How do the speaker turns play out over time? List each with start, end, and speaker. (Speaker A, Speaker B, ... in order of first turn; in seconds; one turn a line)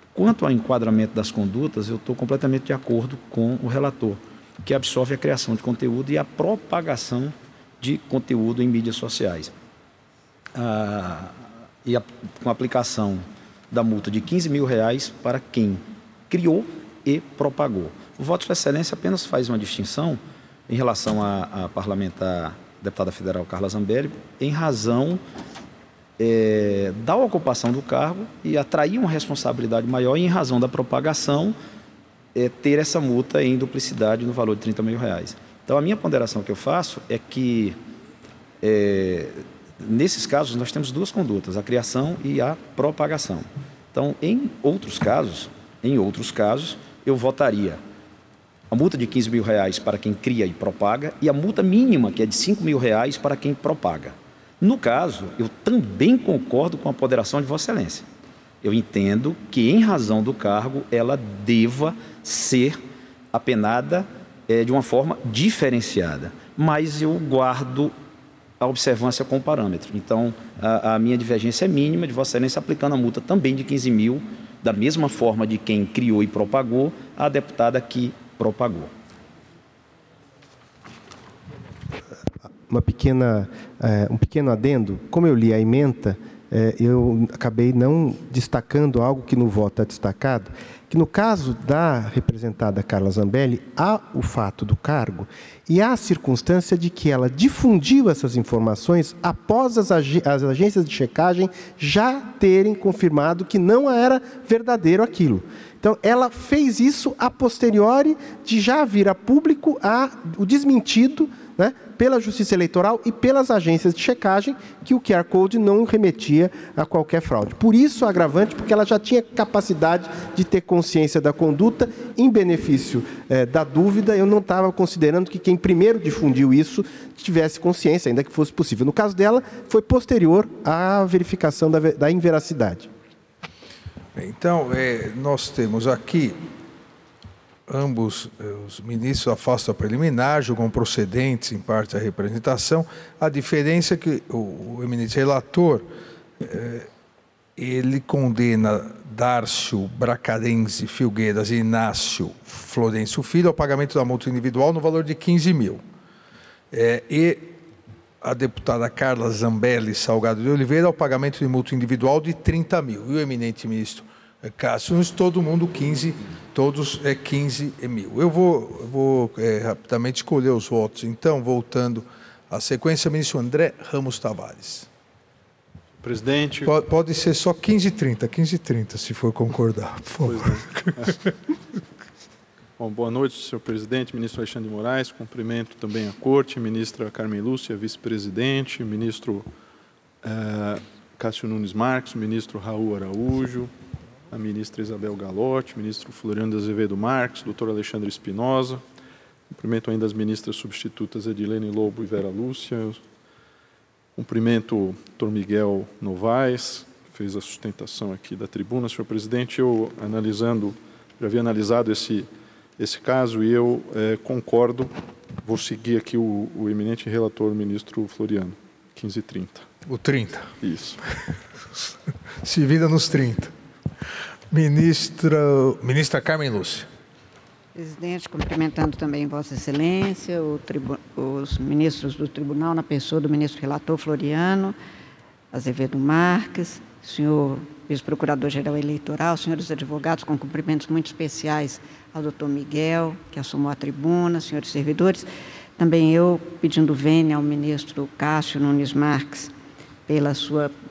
Speaker A: 0.1-9.5
Speaker A: 10.6-25.2
Speaker A: 26.2-31.6
Speaker A: 32.4-37.8
Speaker A: 38.6-47.8
Speaker A: 48.7-58.1
Speaker A: 58.6-62.8
Speaker A: 63.3-67.9
Speaker A: 68.6-78.9
Speaker B: 82.7-132.9
Speaker C: 134.2-136.4
Speaker C: 137.7-145.9
Speaker C: 146.4-146.9
Speaker C: 147.6-155.8
Speaker C: 156.7-157.6
Speaker C: 158.2-174.9
Speaker D: 176.0-176.8
Speaker C: 176.7-181.2
Speaker D: 180.2-181.1
Speaker D: 182.8-189.5
Speaker D: 190.2-193.7
Speaker D: 194.3-198.8
Speaker D: 199.5-203.0
Speaker D: 204.2-219.7
Speaker C: 219.9-220.5
Speaker D: 220.6-221.0
Speaker C: 222.4-223.5
Speaker C: 224.5-226.9
Speaker E: 227.8-234.8
Speaker E: 235.5-249.5
Speaker E: 250.1-250.7